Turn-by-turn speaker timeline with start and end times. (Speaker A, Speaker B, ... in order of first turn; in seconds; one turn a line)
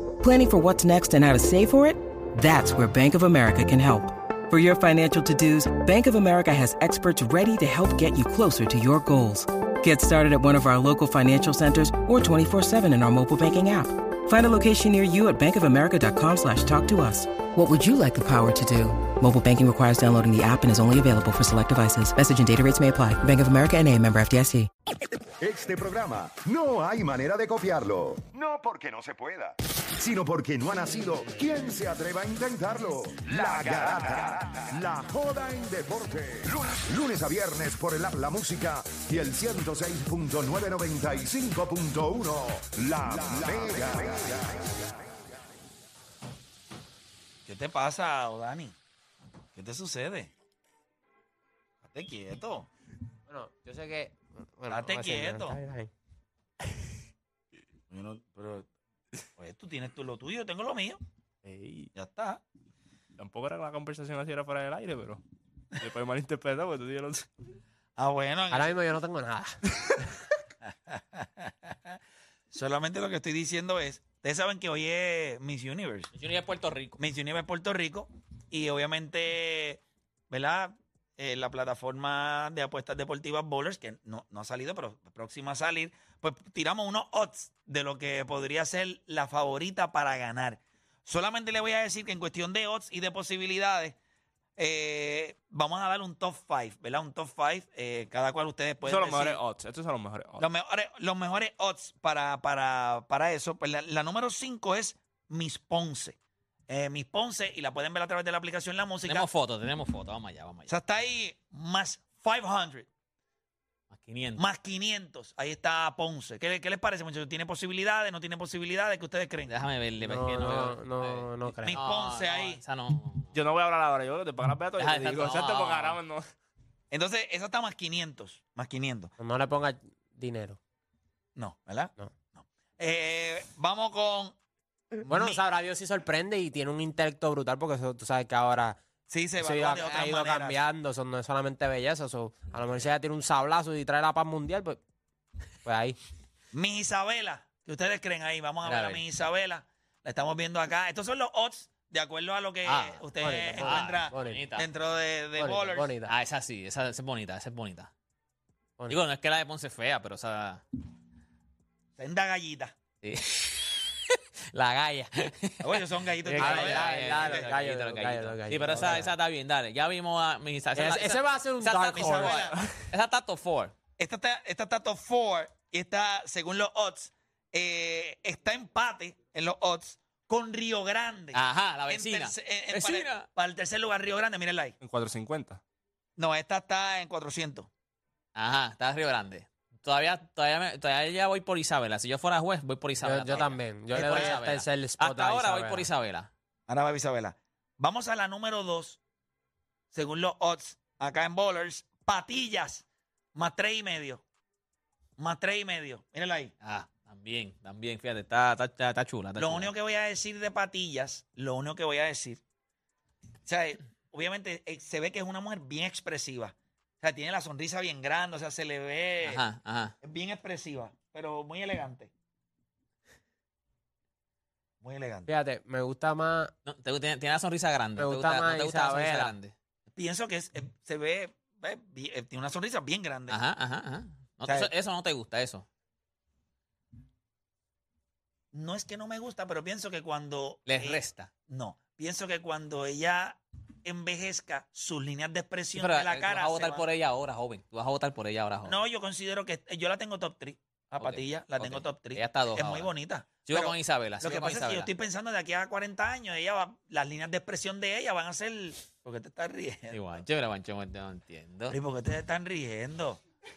Speaker A: 5.1-10.3
Speaker A: 10.8-17.7
Speaker A: 23.3-24.7
Speaker B: 25.4-44.6
Speaker C: 43.6-44.1
Speaker C: 47.5-48.8
Speaker C: 49.5-50.3
Speaker C: 51.8-52.7
Speaker D: 53.3-55.9
Speaker C: 54.7-55.6
Speaker C: 57.9-58.7
Speaker C: 59.4-61.0
Speaker E: 61.4-61.9
Speaker C: 61.9-62.4
Speaker E: 63.2-65.2
Speaker E: 65.8-67.3
Speaker C: 68.0-68.8
Speaker D: 68.5-69.6
Speaker C: 70.7-72.0
Speaker C: 72.5-76.1
Speaker F: 76.1-77.0
Speaker C: 77.0-94.0
Speaker C: 94.6-99.4
Speaker E: 98.8-100.4
Speaker C: 100.4-106.2
Speaker C: 106.7-109.3
Speaker F: 109.0-110.7
Speaker C: 110.7-112.9
Speaker F: 113.9-114.4
Speaker C: 114.3-119.5
Speaker F: 119.5-123.3
Speaker D: 120.0-121.8
Speaker C: 121.7-122.6
Speaker E: 123.3-126.2
Speaker F: 124.8-126.0
Speaker C: 126.9-129.1
Speaker D: 129.2-130.6
Speaker C: 131.3-134.3
Speaker C: 135.0-135.4
Speaker D: 135.0-138.8
Speaker C: 139.1-140.6
Speaker D: 139.4-144.8
Speaker D: 145.6-146.0
Speaker C: 146.5-155.9
Speaker F: 148.6-149.0
Speaker F: 152.6-154.7
Speaker D: 153.2-154.4
Speaker D: 155.4-156.1
Speaker F: 156.1-157.9
Speaker F: 158.9-160.6
Speaker C: 162.0-162.7
Speaker F: 163.0-173.7
Speaker D: 164.6-165.1
Speaker C: 165.6-167.5
Speaker D: 166.3-169.1
Speaker C: 168.7-169.1
Speaker D: 170.7-172.7
Speaker C: 171.9-172.6
Speaker C: 174.0-184.8
Speaker F: 181.3-183.2
Speaker E: 184.8-185.6
Speaker C: 186.2-187.7
Speaker F: 188.3-196.3
Speaker D: 193.0-195.9
Speaker C: 193.9-194.4
Speaker C: 196.7-199.0
Speaker C: 199.9-204.2
Speaker C: 205.2-206.5
Speaker F: 206.6-209.7
Speaker C: 209.3-212.4
Speaker C: 213.4-219.4
Speaker F: 219.2-219.9
Speaker C: 220.0-222.1
Speaker C: 224.8-225.3
Speaker D: 225.3-226.5
Speaker F: 226.7-229.5
Speaker D: 228.0-229.3
Speaker C: 229.9-233.4
Speaker F: 233.3-235.7
Speaker C: 234.4-234.7
Speaker C: 238.5-246.9
Speaker F: 240.7-241.3
Speaker F: 245.7-248.8
Speaker C: 248.6-260.0
Speaker F: 251.0-252.9
Speaker F: 253.4-254.9
Speaker F: 259.9-261.8
Speaker C: 261.7-263.2